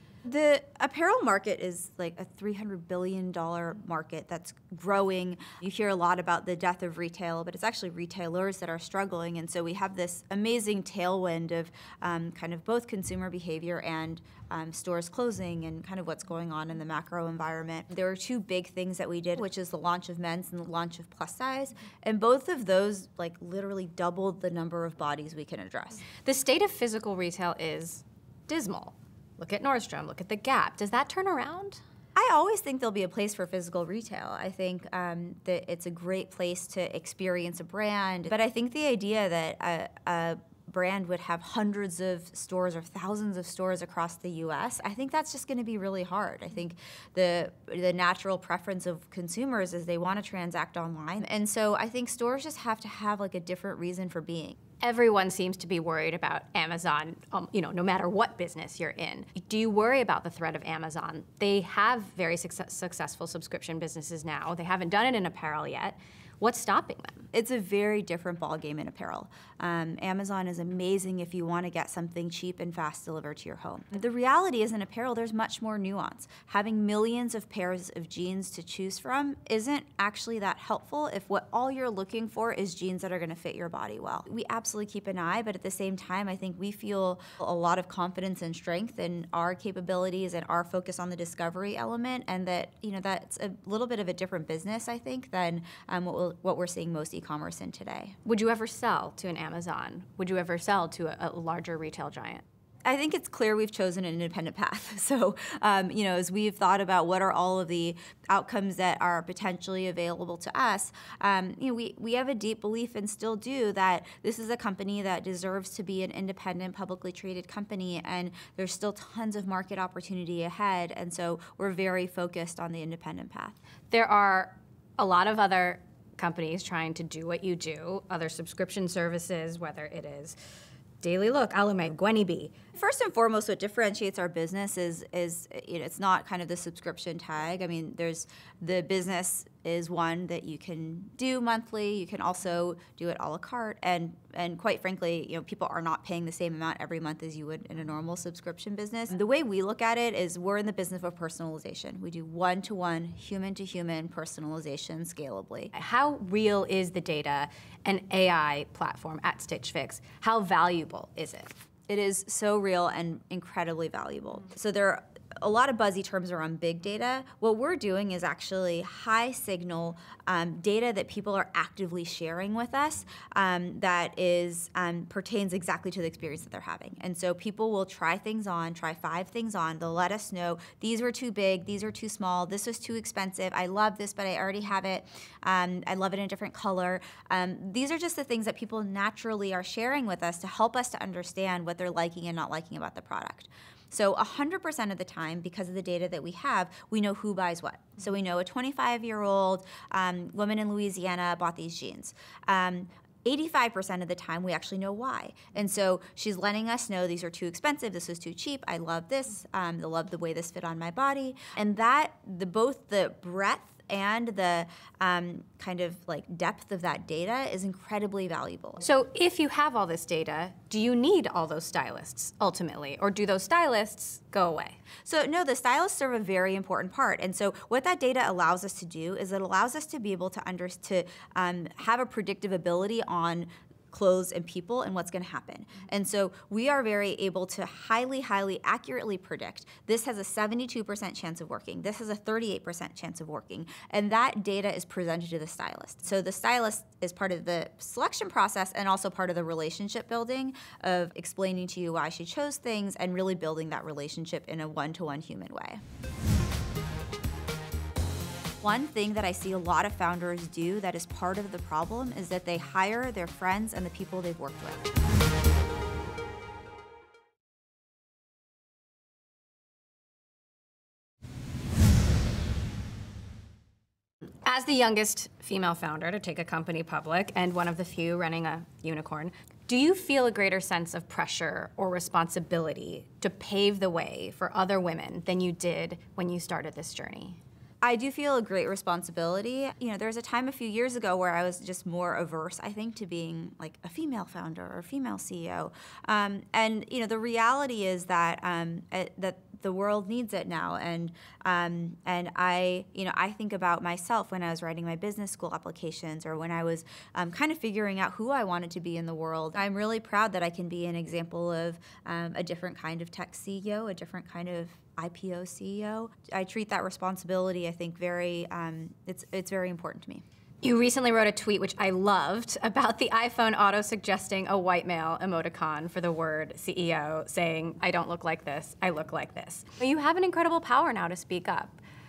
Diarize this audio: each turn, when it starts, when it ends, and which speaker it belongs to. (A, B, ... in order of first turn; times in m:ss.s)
0:00.3-0:26.0 A
0:26.2-0:31.8 B
0:32.2-0:54.6 A
0:54.8-1:07.3 B
1:07.3-1:38.2 A
1:38.2-1:42.4 B
1:42.8-2:03.6 A
2:03.9-2:10.4 B
2:11.0-2:12.6 B
2:12.8-2:35.7 A
2:35.7-2:41.6 B
2:41.9-3:38.8 A
3:38.8-3:44.8 B
3:45.0-4:15.8 A
4:18.6-4:24.9 A
4:34.4-4:47.4 B
4:47.8-5:20.2 A
5:20.6-5:31.8 B